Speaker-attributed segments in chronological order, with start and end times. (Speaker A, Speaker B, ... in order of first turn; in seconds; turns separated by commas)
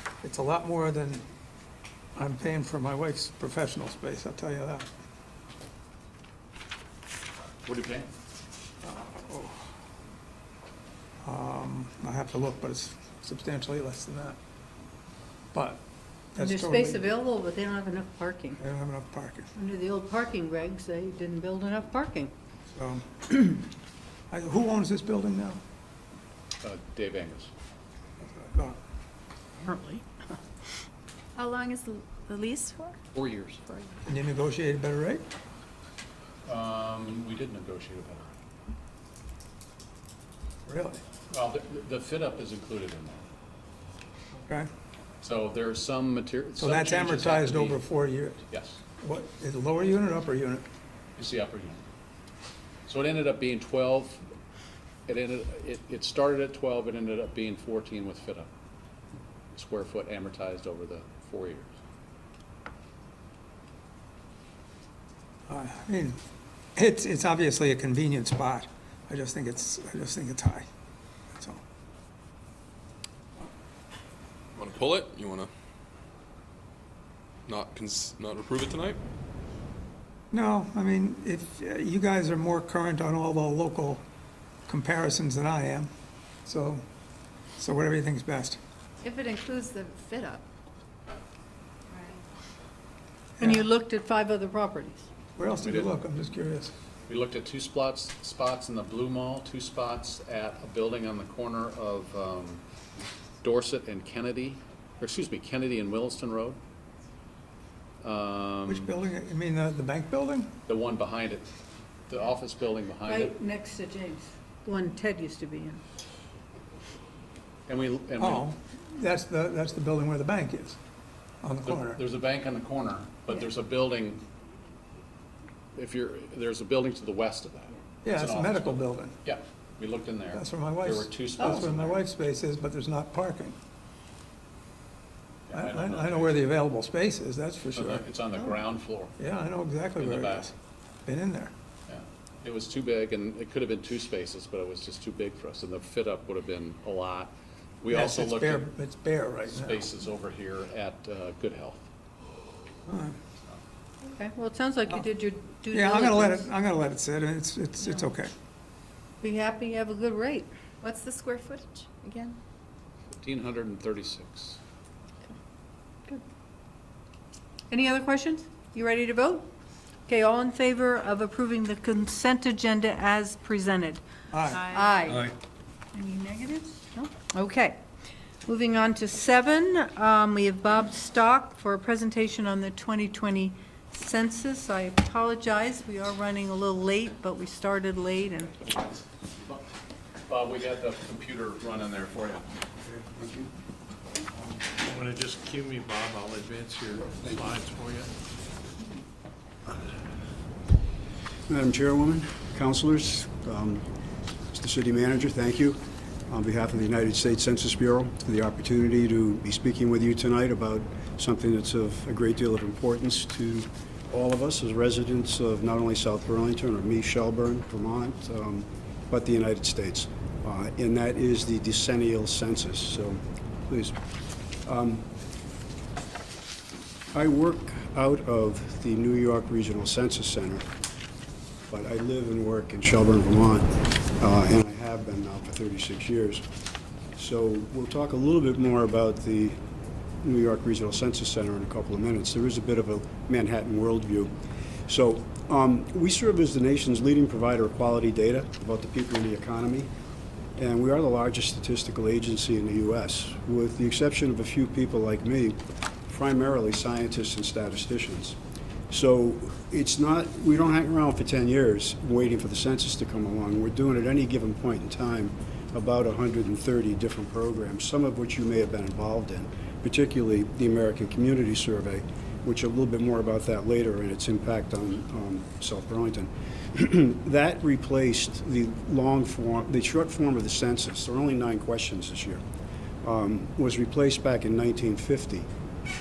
Speaker A: 0.2-1.3, Speaker A: 2.2-4.9, Speaker B: 7.6-8.1, Speaker A: 8.8-9.6, Speaker A: 11.2-14.4, Speaker A: 15.5-15.8, Speaker A: 16.3-17.1, Speaker C: 16.4-18.6, Speaker A: 18.6-19.5, Speaker C: 19.6-22.3, Speaker A: 22.8-23.6, Speaker A: 24.3-25.6, Speaker B: 26.6-27.5, Speaker A: 28.2-28.8, Speaker C: 29.7-30.0, Speaker D: 31.4-33.0, Speaker B: 33.1-33.7, Speaker A: 34.1-35.3, Speaker B: 36.5-38.3, Speaker A: 40.7-41.0, Speaker B: 41.3-43.2, Speaker B: 45.2-47.8, Speaker A: 46.6-48.4, Speaker B: 48.5-48.8, Speaker A: 49.0-50.7, Speaker B: 51.2-51.8, Speaker B: 52.9-54.2, Speaker B: 55.1-58.5, Speaker B: 59.5-61.7, Speaker A: 65.5-66.2, Speaker A: 66.8-70.7, Speaker A: 71.3-71.6, Speaker E: 74.5-75.5, Speaker E: 77.5-79.0, Speaker A: 80.3-84.0, Speaker A: 84.7-85.9, Speaker A: 86.5-86.8, Speaker A: 87.6-88.6, Speaker D: 89.0-90.5, Speaker D: 91.9-92.2, Speaker C: 93.4-95.1, Speaker A: 95.4-96.7, Speaker B: 95.6-96.0, Speaker B: 97.1-102.6, Speaker B: 103.4-106.6, Speaker B: 108.0-108.9, Speaker A: 108.7-110.5, Speaker B: 110.7-111.5, Speaker B: 112.1-113.4, Speaker C: 113.0-115.8, Speaker B: 117.7-118.5, Speaker A: 118.2-120.8, Speaker A: 121.4-122.0, Speaker B: 121.6-124.2, Speaker B: 125.8-132.0, Speaker A: 128.0-129.2, Speaker A: 130.3-133.6, Speaker B: 135.5-136.4, Speaker A: 135.5-138.1, Speaker B: 137.7-139.1, Speaker A: 139.2-140.6, Speaker B: 140.0-140.5, Speaker A: 141.1-141.5, Speaker B: 141.9-148.7, Speaker A: 147.9-149.8, Speaker B: 149.5-151.9, Speaker A: 152.9-153.2, Speaker C: 154.0-156.5, Speaker A: 155.7-158.3, Speaker C: 159.2-160.5, Speaker D: 160.8-162.4, Speaker B: 163.1-164.6, Speaker C: 167.7-169.5, Speaker C: 170.1-174.0, Speaker A: 174.3-174.7, Speaker D: 174.6-175.2, Speaker C: 174.6-175.3, Speaker C: 175.9-177.8, Speaker C: 178.5-188.6, Speaker B: 188.8-189.6, Speaker B: 190.3-192.5, Speaker F: 192.9-193.5, Speaker G: 194.8-198.1, Speaker F: 201.5-203.9, Speaker F: 204.5-224.0, Speaker F: 224.7-225.1, Speaker F: 227.1-230.7, Speaker F: 231.7-236.5, Speaker F: 237.2-239.6, Speaker F: 240.2-244.3, Speaker F: 244.9-249.9, Speaker F: 250.6-258.4, Speaker F: 258.9-282.4, Speaker F: 283.0-285.5